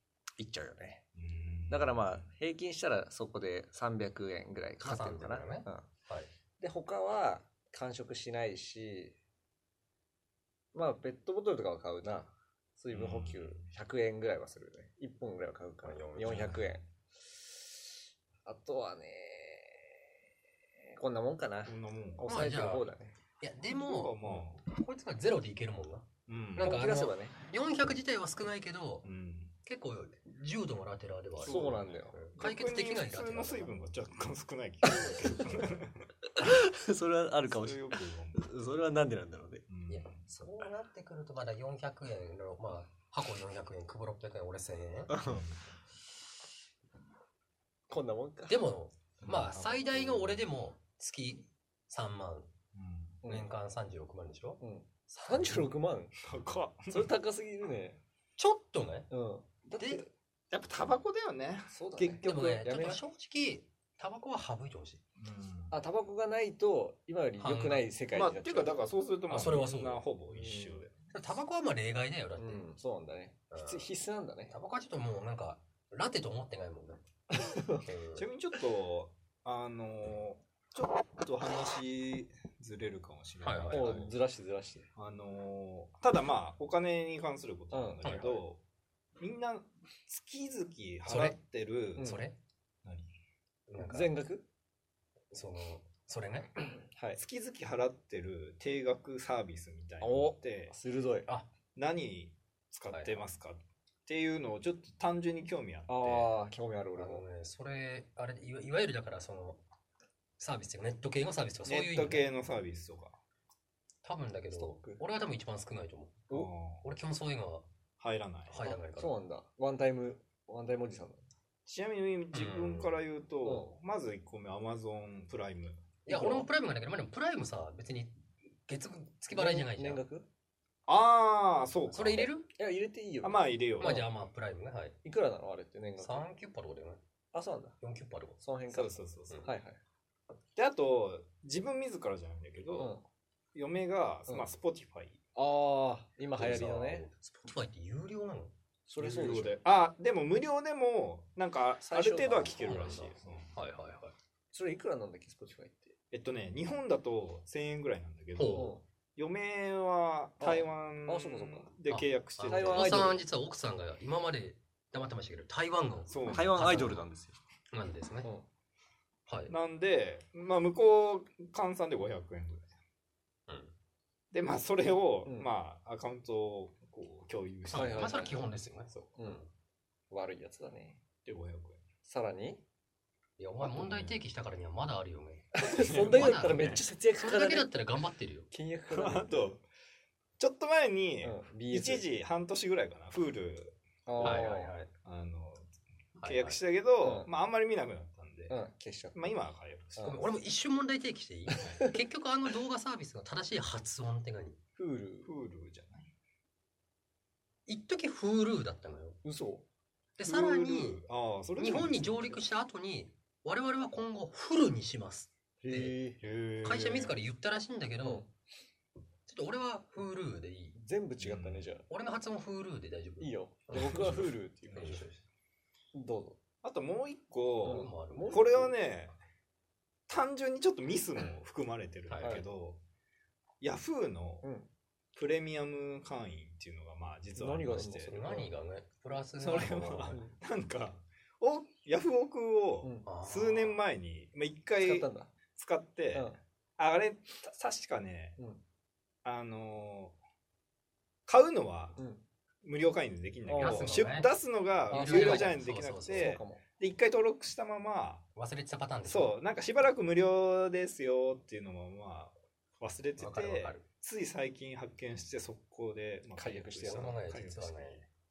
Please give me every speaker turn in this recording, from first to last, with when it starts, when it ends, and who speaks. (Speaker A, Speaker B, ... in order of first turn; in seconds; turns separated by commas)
Speaker A: 0.4-1.0, Speaker B: 1.1-2.3, Speaker A: 1.7-5.9, Speaker C: 4.8-6.3, Speaker A: 6.6-9.2, Speaker A: 10.7-16.8, Speaker B: 12.9-13.7, Speaker C: 15.9-16.5, Speaker B: 16.2-16.8, Speaker A: 18.4-20.0, Speaker A: 21.0-23.1, Speaker B: 21.7-22.3, Speaker C: 22.3-26.1, Speaker B: 23.7-24.6, Speaker B: 26.3-26.8, Speaker A: 26.6-27.4, Speaker C: 26.6-29.1, Speaker B: 29.0-29.5, Speaker C: 29.7-33.8, Speaker A: 31.4-32.2, Speaker B: 31.4-36.1, Speaker C: 34.9-35.8, Speaker A: 36.4-39.6, Speaker B: 37.5-38.5, Speaker B: 39.7-40.2, Speaker C: 39.9-45.1, Speaker A: 40.3-40.6, Speaker A: 45.1-45.4, Speaker B: 45.2-45.6, Speaker A: 47.9-48.6, Speaker C: 48.5-52.5, Speaker B: 52.7-53.2, Speaker A: 53.2-53.5, Speaker C: 53.3-55.6, Speaker A: 54.6-56.1, Speaker B: 56.2-57.1, Speaker A: 56.9-58.0, Speaker C: 58.4-59.1, Speaker A: 59.1-60.1, Speaker C: 59.8-60.0, Speaker B: 60.5-62.7, Speaker A: 61.7-63.0, Speaker C: 62.2-65.0, Speaker B: 65.2-65.8, Speaker A: 65.7-68.8, Speaker C: 67.4-67.8, Speaker B: 68.1-71.0, Speaker C: 69.3-70.0, Speaker A: 70.3-70.9, Speaker C: 71.1-72.6, Speaker A: 72.4-74.5, Speaker C: 73.5-73.9, Speaker C: 74.5-77.0, Speaker A: 77.3-77.9, Speaker C: 77.8-78.3, Speaker B: 78.2-84.1, Speaker C: 83.4-84.1, Speaker A: 83.7-84.9, Speaker B: 85.0-88.6, Speaker A: 87.7-88.3, Speaker C: 88.0-88.4, Speaker B: 89.2-92.2, Speaker C: 91.1-91.4, Speaker A: 92.0-92.2, Speaker C: 92.0-92.3, Speaker C: 93.7-94.1, Speaker A: 93.8-94.5, Speaker C: 95.3-96.6, Speaker A: 96.9-97.2, Speaker B: 97.2-100.7, Speaker A: 100.0-101.3, Speaker B: 101.8-106.3, Speaker C: 102.9-103.2, Speaker A: 105.9-107.2, Speaker C: 107.0-109.6, Speaker C: 110.4-112.3, Speaker B: 111.7-113.2, Speaker C: 114.0-117.7, Speaker A: 114.5-115.0, Speaker B: 116.3-116.8, Speaker B: 118.0-118.8, Speaker C: 118.5-119.1, Speaker A: 118.6-121.2, Speaker B: 121.7-126.5, Speaker C: 122.3-123.0, Speaker A: 123.4-123.7, Speaker C: 126.1-128.2, Speaker A: 126.1-126.4, Speaker C: 128.7-130.0, Speaker A: 129.3-130.3, Speaker B: 130.9-132.3, Speaker C: 131.9-132.5, Speaker A: 132.6-134.1, Speaker B: 133.2-134.0, Speaker C: 133.8-135.0, Speaker A: 135.0-136.2, Speaker C: 136.0-137.0, Speaker A: 137.3-137.8, Speaker C: 137.8-138.4, Speaker A: 138.4-139.8, Speaker B: 138.7-139.5, Speaker B: 140.6-142.9, Speaker A: 142.7-143.0, Speaker B: 143.5-145.2, Speaker A: 145.3-147.1, Speaker C: 146.4-148.5, Speaker A: 148.9-149.6, Speaker B: 149.0-153.5, Speaker A: 151.8-153.1, Speaker C: 152.4-154.2, Speaker A: 154.5-155.9, Speaker B: 156.1-163.2, Speaker C: 158.4-158.7, Speaker A: 158.4-158.8, Speaker A: 160.4-161.7, Speaker C: 161.9-167.0, Speaker A: 162.5-163.2, Speaker B: 166.1-166.7, Speaker A: 166.2-167.4, Speaker C: 167.7-168.3, Speaker C: 169.3-169.6, Speaker B: 169.5-172.7, Speaker B: 174.3-178.4, Speaker C: 177.7-179.4, Speaker A: 177.7-178.4, Speaker A: 179.2-179.4, Speaker A: 180.1-181.0, Speaker B: 181.2-181.8, Speaker A: 182.1-182.6, Speaker C: 183.4-188.5, Speaker B: 183.6-184.2, Speaker A: 185.5-187.8, Speaker B: 185.7-186.8, Speaker A: 188.5-189.5, Speaker B: 188.9-189.6, Speaker B: 190.4-194.5, Speaker A: 191.2-192.1, Speaker A: 194.1-194.8, Speaker C: 194.2-194.9, Speaker B: 195.0-195.7, Speaker C: 196.2-196.6, Speaker B: 196.2-198.6, Speaker A: 197.0-197.3, Speaker A: 198.5-199.2, Speaker B: 199.1-200.2, Speaker A: 200.0-200.2, Speaker C: 200.1-204.6, Speaker A: 201.5-202.0, Speaker A: 204.8-205.3, Speaker B: 205.3-206.1, Speaker C: 207.7-209.2, Speaker A: 209.2-209.7, Speaker C: 210.2-211.0, Speaker B: 210.2-212.4, Speaker C: 211.6-215.9, Speaker A: 215.6-216.2, Speaker B: 216.2-217.2, Speaker C: 216.6-218.2, Speaker A: 218.0-218.3, Speaker C: 219.3-220.8, Speaker A: 220.8-221.9, Speaker B: 221.2-221.6, Speaker C: 221.9-224.2, Speaker A: 223.2-225.0, Speaker B: 224.7-225.0, Speaker C: 224.8-225.2, Speaker A: 225.9-226.4, Speaker B: 226.6-229.1, Speaker A: 227.6-228.8, Speaker C: 227.6-228.4, Speaker B: 230.1-232.8, Speaker C: 232.1-232.4, Speaker A: 232.2-232.5, Speaker B: 233.6-234.4, Speaker A: 234.4-234.7, Speaker B: 235.2-238.2, Speaker A: 237.4-238.5, Speaker C: 237.8-240.2, Speaker A: 239.4-240.3, Speaker B: 239.4-248.4, Speaker A: 242.8-243.1, Speaker C: 243.1-243.8, Speaker A: 244.8-245.3, Speaker A: 246.1-246.4, Speaker B: 249.2-250.2, Speaker B: 251.3-252.0, Speaker A: 252.0-252.2, Speaker B: 252.6-258.2, Speaker A: 253.5-254.4, Speaker C: 253.6-254.3, Speaker C: 254.9-256.4, Speaker A: 254.9-256.6, Speaker C: 258.4-259.3, Speaker B: 259.1-268.0, Speaker C: 263.2-263.8, Speaker A: 266.4-267.1, Speaker C: 266.9-268.1